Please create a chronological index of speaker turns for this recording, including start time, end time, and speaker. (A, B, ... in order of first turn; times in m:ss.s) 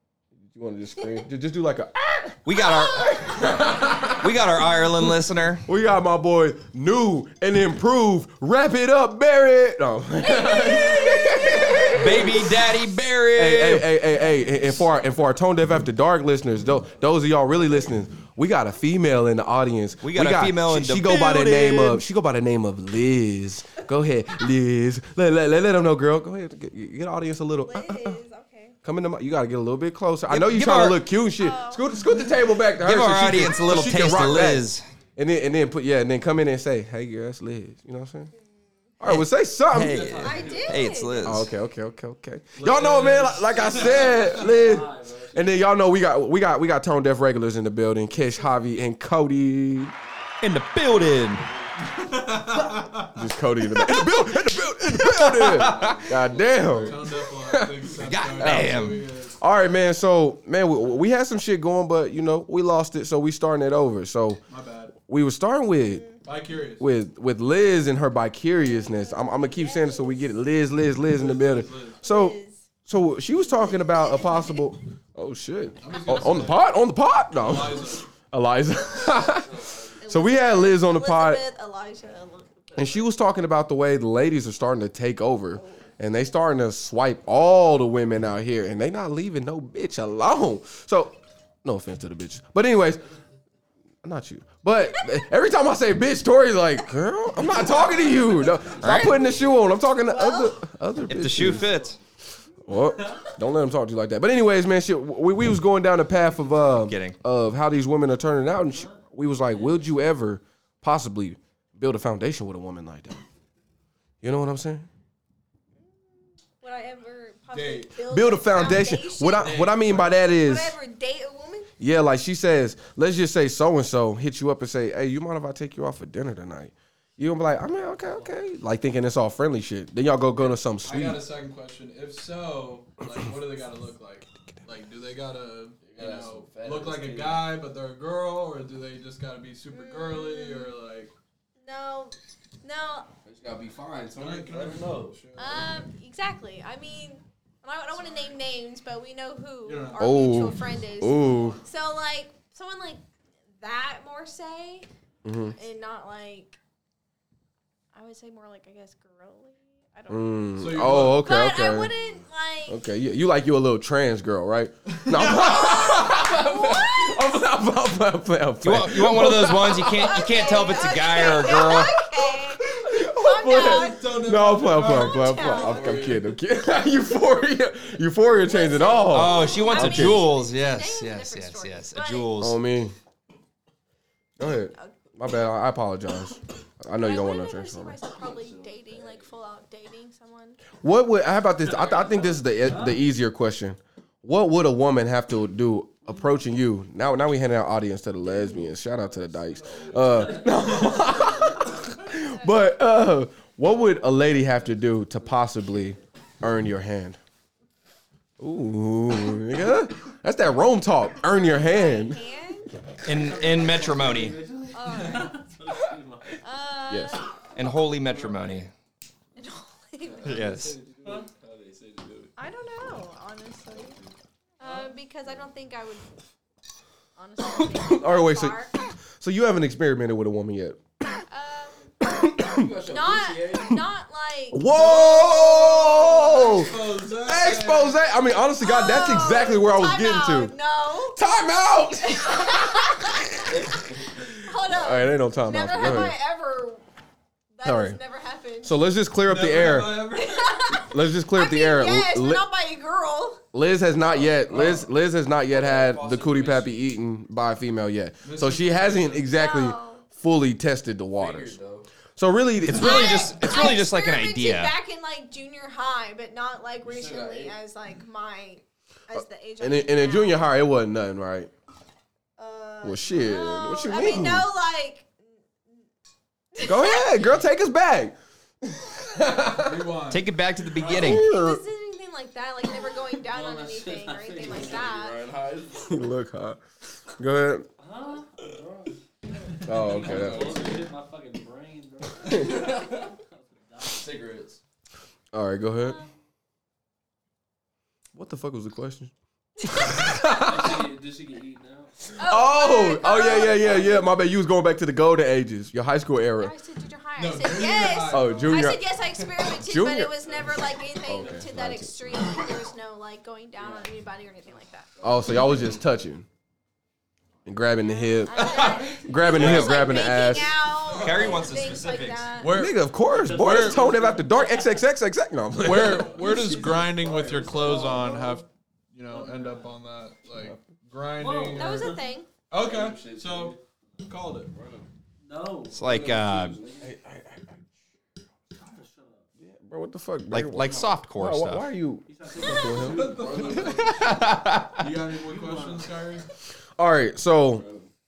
0:00.4-0:04.4 A
0:02.4-0:05.6 B
0:02.8-0:03.4 C
0:05.6-0:12.7 A
0:10.2-0:12.4 C
0:11.9-0:14.0 B
0:13.3-0:28.2 A
0:20.0-0:21.4 B
0:21.1-0:22.0 C
0:27.6-0:28.8 C
0:28.8-0:38.3 A
0:30.3-0:31.0 B
0:31.4-0:31.8 C
0:32.8-0:34.8 B
0:39.0-0:40.2 A
0:39.0-0:41.5 B
0:39.9-0:40.8 D
0:40.0-0:40.9 E
0:40.2-0:41.4 C
0:41.2-0:49.9 A
0:42.6-0:44.3 D
0:43.5-0:45.5 E
0:50.4-0:51.4 B
0:50.8-0:51.7 F
0:51.8-0:53.2 D
0:53.1-0:58.8 A
0:53.8-0:56.0 B
0:55.5-0:57.1 F
0:56.6-0:59.4 D
0:58.0-0:59.0 B
0:59.4-1:04.4 A
1:04.5-1:05.0 D
1:05.0-1:06.0 A
1:05.9-1:06.2 C
1:06.2-1:06.9 D
1:06.8-1:21.4 A
1:08.6-1:10.3 C
1:11.1-1:12.0 D
1:12.0-1:12.6 C
1:13.4-1:14.6 C
1:15.8-1:16.6 D
1:17.4-1:18.1 D
1:19.1-1:20.0 F
1:20.0-1:23.0 C
1:22.8-1:33.0 A
1:34.0-1:41.7 A
1:38.8-1:40.6 C
1:38.8-1:39.2 B
1:41.1-1:42.0 B
1:41.7-1:41.9 E
1:42.6-1:53.2 A
1:42.9-1:43.2 E
1:46.9-1:47.2 B
1:54.2-1:54.9 A
1:56.6-1:59.6 C
1:57.5-1:57.9 D
1:58.0-2:00.8 A
1:59.6-1:59.9 F
2:00.4-2:01.7 C
2:01.8-2:11.2 A
2:10.4-2:21.1 D
2:15.8-2:17.5 F
2:19.7-2:20.7 C
2:21.6-2:23.1 C
2:23.2-2:25.2 F
2:24.2-2:25.7 D
2:25.4-2:33.0 C
2:29.6-2:30.3 D
2:30.0-2:31.6 A
2:33.6-2:34.9 C
2:35.2-2:35.6 A
2:35.5-2:36.6 C
2:37.9-2:40.5 C
2:40.1-2:41.9 A
2:40.6-2:41.3 D
2:41.1-2:42.8 C
2:42.7-2:50.3 A
2:44.9-2:45.4 D
2:45.2-2:47.4 C
2:48.6-2:52.0 B
2:49.2-2:56.1 C
2:51.1-3:00.2 A
2:53.4-2:56.2 D
2:55.8-2:56.2 F
2:58.3-3:02.3 C
2:59.1-3:02.6 B
3:02.4-3:03.0 A
3:04.4-3:08.0 A
3:04.7-3:05.0 C
3:07.0-3:10.6 C
3:08.1-3:09.3 F
3:10.8-3:27.2 A
3:11.6-3:13.0 E
3:18.2-3:21.7 F
3:20.0-3:21.9 E
3:24.4-3:25.9 F
3:28.4-3:32.2 A
3:31.4-3:32.7 C
3:33.0-3:34.3 B
3:33.0-3:36.4 E
3:34.7-3:35.3 C
3:36.4-3:37.3 C
3:36.9-3:37.2 A
3:37.5-3:38.7 B
3:38.1-3:38.6 E
3:39.4-3:40.4 C
3:40.0-3:42.3 F
3:40.2-3:40.8 B
3:41.0-3:41.3 E
3:42.4-3:44.0 C
3:43.7-3:44.1 F
3:44.6-3:46.1 C
3:44.6-3:45.0 E
3:47.2-3:48.7 C
3:47.4-3:48.6 A
3:49.2-3:50.8 A
3:51.2-3:51.8 C
3:52.0-3:52.7 A
3:52.5-3:53.8 F
3:52.8-3:56.4 C
3:54.5-4:00.5 A
3:54.7-3:58.0 D
3:58.6-4:01.2 C
4:01.1-4:03.5 A
4:02.1-4:03.1 C
4:03.6-4:04.1 F
4:04.2-4:06.2 A
4:04.4-4:06.8 C
4:07.6-4:08.8 C
4:07.6-4:08.0 A
4:08.6-4:10.1 A
4:09.2-4:10.6 D
4:10.1-4:13.4 C
4:10.8-4:12.4 A
4:13.5-4:21.6 A
4:14.0-4:14.9 F
4:15.5-4:16.9 F
4:18.2-4:19.3 D
4:19.3-4:20.0 C
4:21.1-4:21.9 F
4:22.2-4:23.3 A
4:22.6-4:24.7 B
4:22.7-4:30.4 C
4:26.8-4:27.6 F
4:29.1-4:31.5 A
4:32.4-4:35.1 C
4:32.8-4:34.5 A
4:36.5-4:37.2 C
4:36.6-4:39.9 A
4:39.3-4:40.3 D
4:40.1-4:41.3 B
4:40.8-4:41.2 E
4:40.8-4:41.6 A
4:40.8-4:45.2 C
4:43.2-4:44.9 E
4:44.4-4:46.0 F
4:45.8-4:46.6 A
4:47.2-4:47.6 A
4:47.8-4:49.0 E
4:49.6-4:54.1 E
4:49.6-4:50.6 A
4:49.7-4:50.9 F
4:52.3-4:53.1 F
4:53.8-4:54.6 F
4:55.3-4:56.0 A
4:55.8-4:56.0 C
4:58.1-4:59.1 A
4:59.6-5:00.8 A
5:00.3-5:01.9 E
5:02.2-5:03.9 C
5:02.2-5:06.5 A
5:06.4-5:14.9 C
5:07.2-5:08.6 D
5:08.1-5:08.8 A
5:09.4-5:10.5 A
5:11.0-5:12.1 A
5:15.0-5:15.8 F
5:15.0-5:16.3 A
5:17.4-5:20.6 A
5:18.0-5:22.6 C
5:18.4-5:19.0 D
5:18.4-5:19.3 E
5:19.3-5:20.1 B
5:20.8-5:21.6 D
5:20.8-5:22.3 B
5:21.0-5:21.6 E
5:22.4-5:23.9 D
5:22.4-5:26.4 A
5:23.1-5:24.8 E
5:25.6-5:32.0 D
5:25.9-5:28.4 E
5:26.0-5:28.4 F
5:29.1-5:29.7 E
5:31.2-5:32.0 E
5:31.5-5:32.3 C
5:32.5-5:34.5 D
5:32.5-5:33.6 F
5:34.5-5:34.9 F
5:35.2-5:35.9 E
5:35.7-5:36.6 B
5:35.8-5:37.0 F
5:36.8-5:37.5 A
5:38.6-5:39.3 E
5:39.4-5:43.1 A
5:40.3-5:41.7 B
5:42.1-5:43.9 E
5:42.4-5:44.3 F
5:43.9-5:44.8 B
5:44.8-5:46.2 D
5:45.2-5:45.9 E
5:46.8-5:47.6 A
5:47.5-5:47.9 F